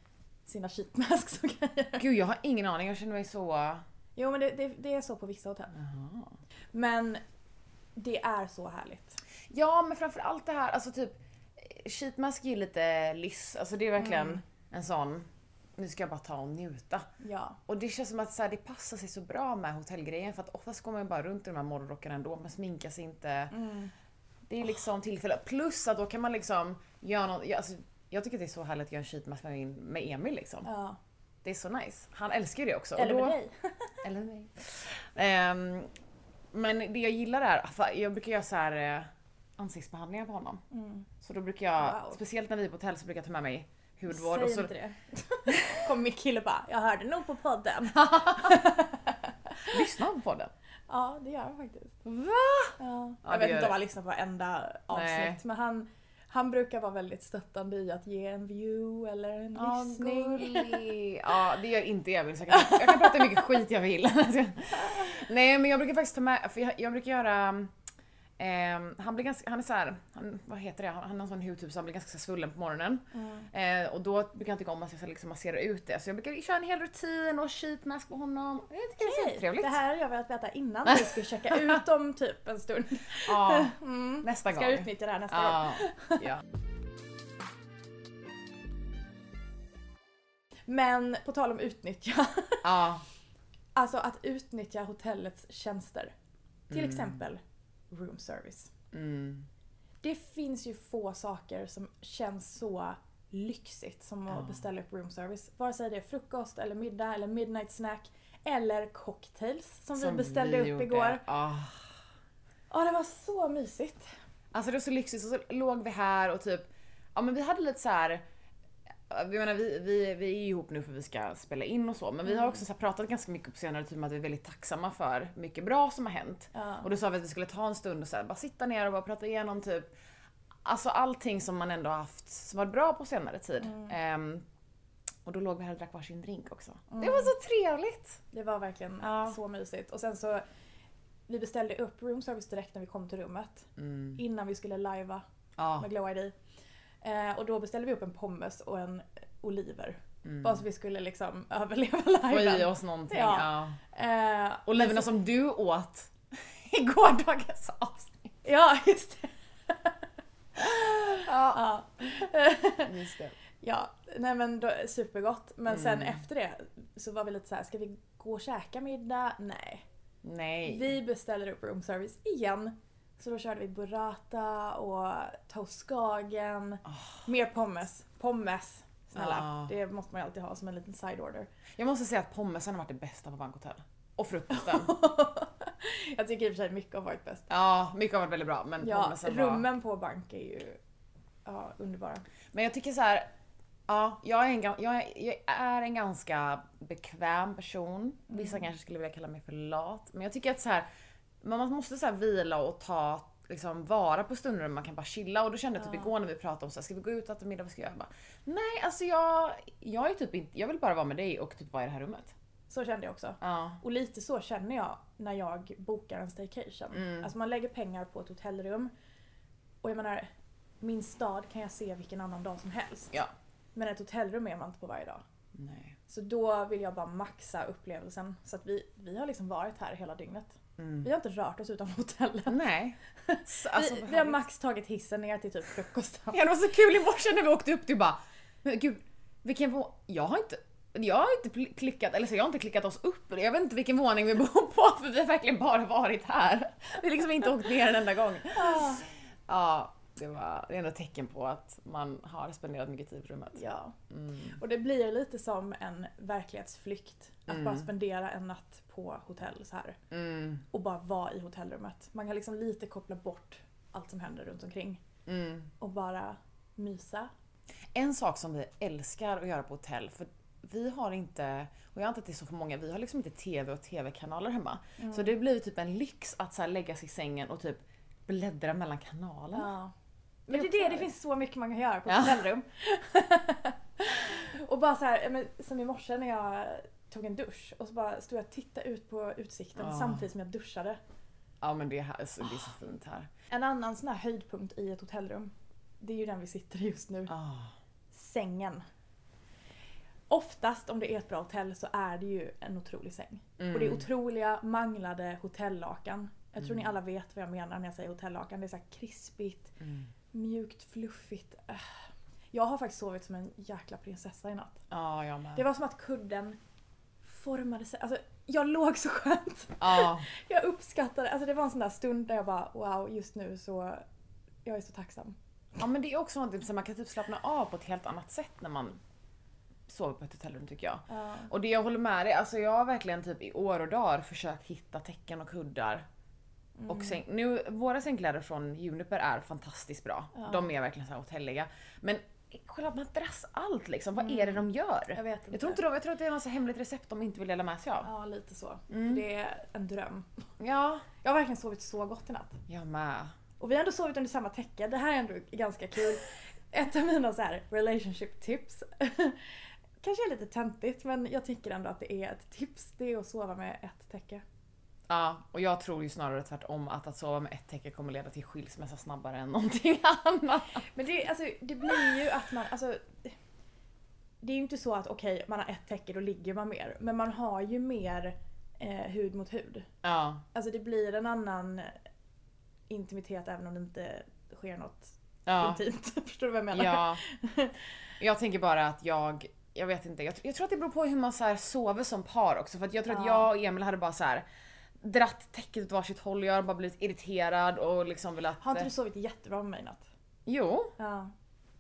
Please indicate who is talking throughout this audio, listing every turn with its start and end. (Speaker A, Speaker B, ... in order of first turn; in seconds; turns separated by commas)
Speaker A: 0.5-2.0, Speaker B: 2.0-3.8, Speaker A: 4.2-5.8, Speaker B: 5.7-6.3, Speaker A: 6.7-7.2, Speaker A: 8.0-9.2, Speaker B: 9.5-17.1, Speaker A: 14.0-14.4, Speaker A: 17.2-17.6, Speaker B: 17.7-23.5, Speaker A: 23.5-23.9, Speaker B: 24.5-30.7, Speaker A: 30.6-31.0, Speaker B: 31.4-33.4, Speaker A: 33.0-34.0, Speaker B: 34.0-35.9, Speaker B: 36.5-40.6, Speaker A: 40.7-41.1, Speaker B: 41.2-44.7, Speaker A: 41.8-42.2, Speaker A: 44.1-49.8, Speaker B: 47.9-48.6, Speaker B: 49.7-50.5, Speaker A: 50.9-52.0, Speaker B: 52.0-53.8, Speaker A: 52.8-60.9, Speaker B: 54.9-55.4, Speaker B: 59.5-67.7, Speaker A: 62.7-63.0, Speaker B: 68.4-79.8, Speaker A: 73.1-73.5, Speaker A: 79.0-86.3, Speaker B: 80.9-81.8, Speaker B: 83.2-86.4, Speaker A: 90.7-92.8, Speaker B: 92.6-93.0, Speaker A: 93.8-96.1, Speaker B: 96.7-97.2, Speaker A: 96.7-98.7, Speaker B: 98.9-99.5, Speaker A: 100.0-111.2, Speaker B: 104.3-104.6, Speaker B: 110.0-111.9, Speaker A: 112.7-114.1, Speaker B: 114.5-118.2, Speaker B: 119.1-129.8, Speaker A: 126.5-126.9, Speaker B: 130.7-134.4, Speaker A: 133.6-133.9, Speaker B: 135.2-138.2, Speaker A: 136.9-137.3, Speaker A: 138.3-140.4, Speaker B: 139.0-139.4, Speaker A: 141.3-145.2, Speaker B: 143.8-144.2, Speaker B: 145.6-145.9, Speaker A: 145.8-146.3, Speaker A: 147.0-155.2, Speaker B: 150.2-150.6, Speaker B: 152.3-153.8, Speaker B: 154.7-158.3, Speaker A: 158.4-160.0, Speaker A: 160.6-162.9, Speaker B: 161.2-161.6, Speaker B: 162.8-163.4, Speaker A: 163.6-169.8, Speaker B: 165.7-166.2, Speaker B: 170.2-170.9, Speaker A: 170.7-181.5, Speaker B: 176.9-177.2, Speaker B: 179.2-179.7, Speaker B: 181.8-185.0, Speaker A: 184.5-187.5, Speaker B: 187.5-189.7, Speaker A: 188.8-190.8, Speaker A: 191.5-192.2, Speaker B: 192.5-193.3, Speaker B: 193.9-200.9, Speaker A: 198.3-198.7, Speaker B: 201.4-212.3, Speaker A: 212.7-218.9, Speaker B: 213.4-213.8, Speaker B: 216.9-217.3, Speaker A: 219.8-223.2, Speaker A: 223.8-225.2, Speaker B: 225.6-226.0, Speaker A: 226.1-232.6, Speaker B: 230.8-231.1, Speaker B: 232.5-234.4, Speaker A: 233.2-236.5, Speaker B: 236.3-254.6, Speaker A: 248.6-249.0, Speaker A: 253.6-253.9, Speaker A: 254.5-260.0, Speaker B: 257.5-257.9, Speaker B: 260.1-260.6, Speaker A: 260.7-265.0, Speaker B: 265.3-265.7, Speaker A: 265.8-267.3, Speaker B: 267.9-279.7, Speaker A: 275.0-275.3, Speaker A: 279.5-279.9, Speaker A: 280.5-291.0, Speaker B: 280.5-281.1, Speaker B: 282.1-282.4, Speaker B: 289.8-290.3, Speaker B: 291.6-293.3, Speaker A: 293.5-297.3, Speaker B: 297.3-297.7, Speaker A: 298.1-298.8, Speaker A: 300.3-309.7, Speaker B: 303.6-304.1, Speaker B: 306.6-306.9, Speaker B: 309.8-310.1, Speaker A: 310.3-311.9, Speaker A: 312.5-314.8, Speaker B: 314.9-315.6, Speaker A: 315.6-316.6, Speaker A: 317.2-324.0, Speaker B: 319.8-320.3, Speaker A: 324.6-325.4, Speaker B: 325.8-329.0, Speaker B: 329.9-336.1, Speaker A: 331.1-331.5, Speaker A: 336.8-337.2, Speaker B: 336.9-348.1, Speaker A: 340.4-340.7, Speaker A: 344.2-345.8, Speaker A: 348.0-350.3, Speaker B: 348.9-349.2, Speaker B: 350.6-351.1, Speaker A: 351.2-352.6, Speaker B: 352.7-353.3, Speaker A: 353.6-364.4, Speaker B: 365.1-370.9, Speaker A: 370.9-373.3, Speaker A: 374.4-379.9, Speaker B: 380.0-380.4, Speaker A: 380.5-382.0, Speaker A: 382.9-387.8, Speaker B: 385.5-385.8, Speaker B: 386.7-387.2, Speaker B: 388.2-394.4, Speaker A: 393.1-393.5, Speaker B: 395.0-398.9, Speaker A: 398.6-400.1, Speaker B: 400.5-400.9, Speaker A: 401.0-401.3